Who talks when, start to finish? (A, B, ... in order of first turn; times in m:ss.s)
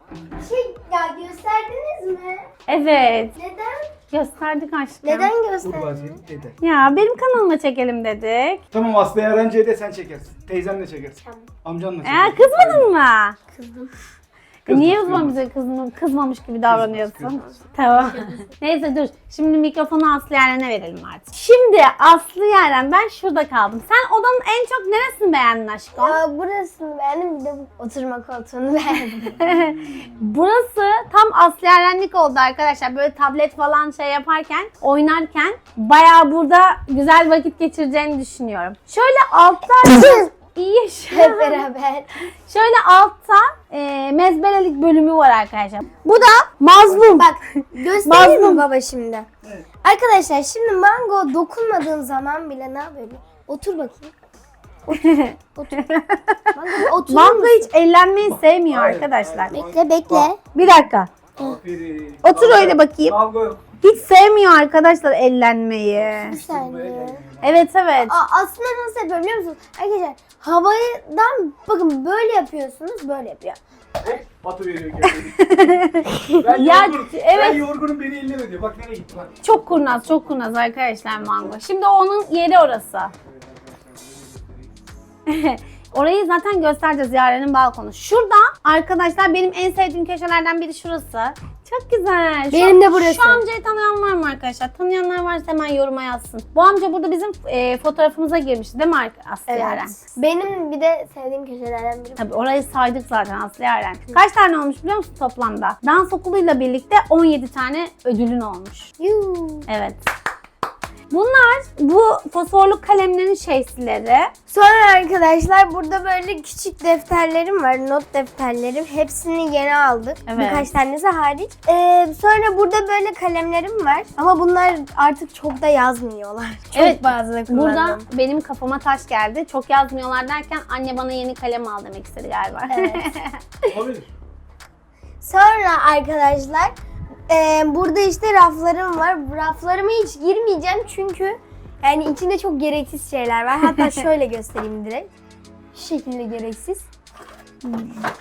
0:00.4-0:02.5 A
0:02.7-0:03.3 B
0:03.3-0:03.9 A
0:04.1-0:05.3 B
0:05.0-0:06.2 A
0:05.6-0:06.6 C
0:06.6-0:08.6 B
0:08.7-0:12.9 C
0:11.2-0:11.5 A
0:12.0-0:13.4 B
0:13.5-0:14.0 A
0:14.6-0:26.2 B
0:14.7-0:15.4 C
0:16.6-0:17.6 C
0:26.0-0:29.4 A
0:29.4-0:41.6 B
0:29.4-0:30.0 C
0:39.8-0:40.3 A
0:41.1-0:42.2 A
0:42.5-0:48.6 B
0:46.9-0:49.3 A
0:49.8-0:54.1 A
0:54.9-0:55.8 A
0:54.9-0:59.6 B
0:56.5-0:57.7 A
0:58.2-1:00.3 C
0:59.5-1:00.4 A
1:00.5-1:01.1 B
1:01.3-1:03.6 C
1:02.2-1:03.2 B
1:03.8-1:06.4 B
1:05.9-1:07.7 C
1:06.3-1:07.2 A
1:07.4-1:08.1 B
1:08.0-1:13.6 A
1:14.0-1:20.4 C
1:15.4-1:17.6 B
1:19.4-1:23.1 B
1:21.2-1:21.6 C
1:23.2-1:24.7 C
1:25.3-1:40.0 B
1:32.5-1:33.4 A
1:39.5-1:42.2 A
1:42.2-1:48.9 B
1:49.0-1:49.7 A
1:49.7-1:50.0 B
1:51.1-1:54.3 B
1:54.5-2:08.0 A
2:00.3-2:00.7 B
2:06.7-2:13.4 B
2:12.7-2:13.0 A
2:13.7-2:14.1 C
2:15.2-2:16.7 A
2:17.3-2:25.1 A
2:25.7-2:26.9 A
2:27.6-2:28.0 B